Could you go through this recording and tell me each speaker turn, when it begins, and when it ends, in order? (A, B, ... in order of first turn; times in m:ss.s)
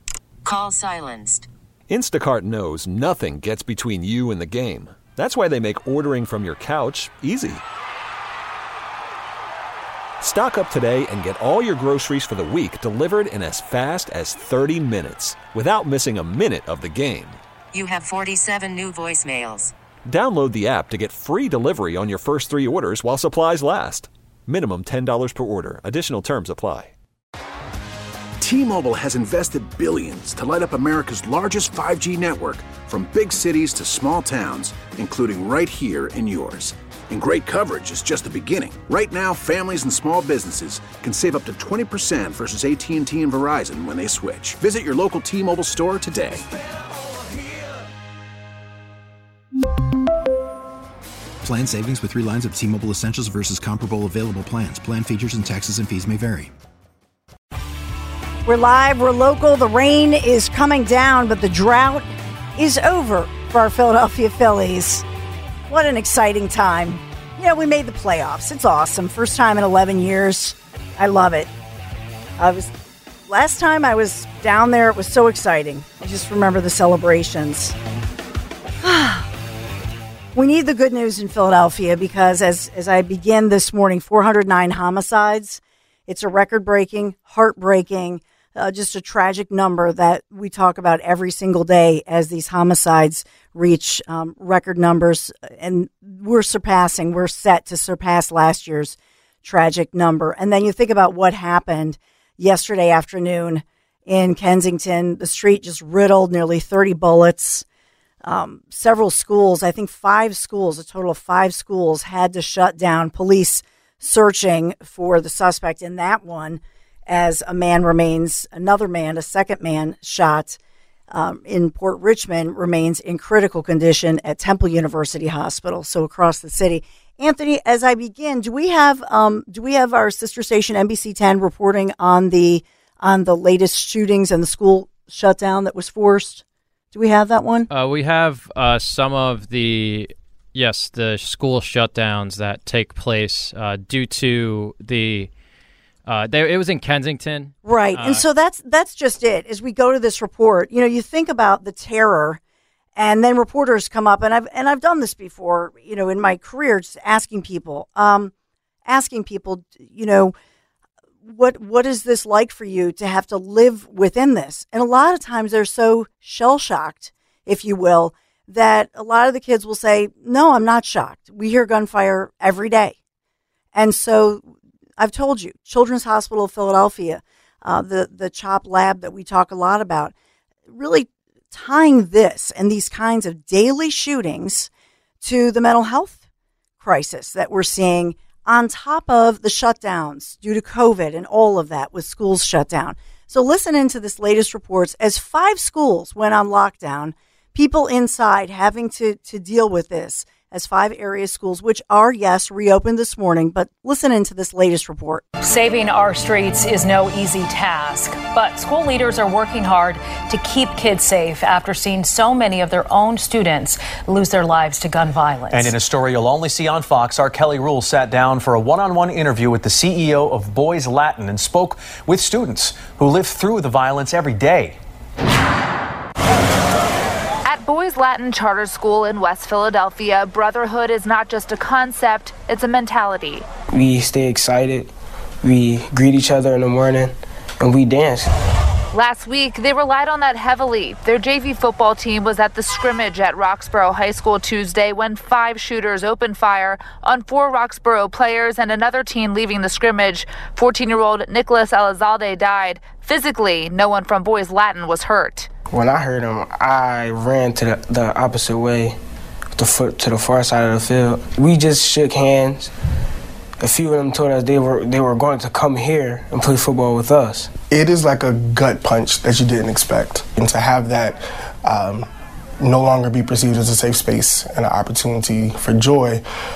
0:00.4-0:01.5 A
0:01.9-0:07.6 B
0:10.2-0:17.4 B
0:17.7-0:19.7 A
0:20.1-0:26.9 B
0:28.4-0:46.4 C
0:51.4-0:56.5 D
0:58.4-1:05.0 E
1:05.7-1:11.5 E
1:12.4-1:12.7 E
1:13.3-1:17.8 E
1:18.8-1:19.3 E
1:20.3-1:47.6 E
1:48.2-2:00.6 E
2:01.1-2:17.7 E
2:17.7-2:25.3 F
2:26.0-2:28.2 F
2:27.6-2:32.4 E
2:32.9-2:38.3 E
2:38.8-2:40.3 E
2:41.2-2:53.0 E
2:53.7-3:00.1 E
3:00.7-3:04.7 E
3:05.2-3:06.2 E
3:06.8-3:25.3 E
3:25.4-3:35.7 G
3:35.5-3:44.8 H
3:47.4-3:53.5 I
3:53.7-3:54.9 J
3:55.4-3:58.3 J
3:58.9-4:15.5 I
4:15.7-4:19.0 J
4:19.6-4:22.7 J
4:23.6-4:27.6 J
4:27.7-4:31.2 K
4:31.7-4:32.0 K
4:32.6-4:36.1 K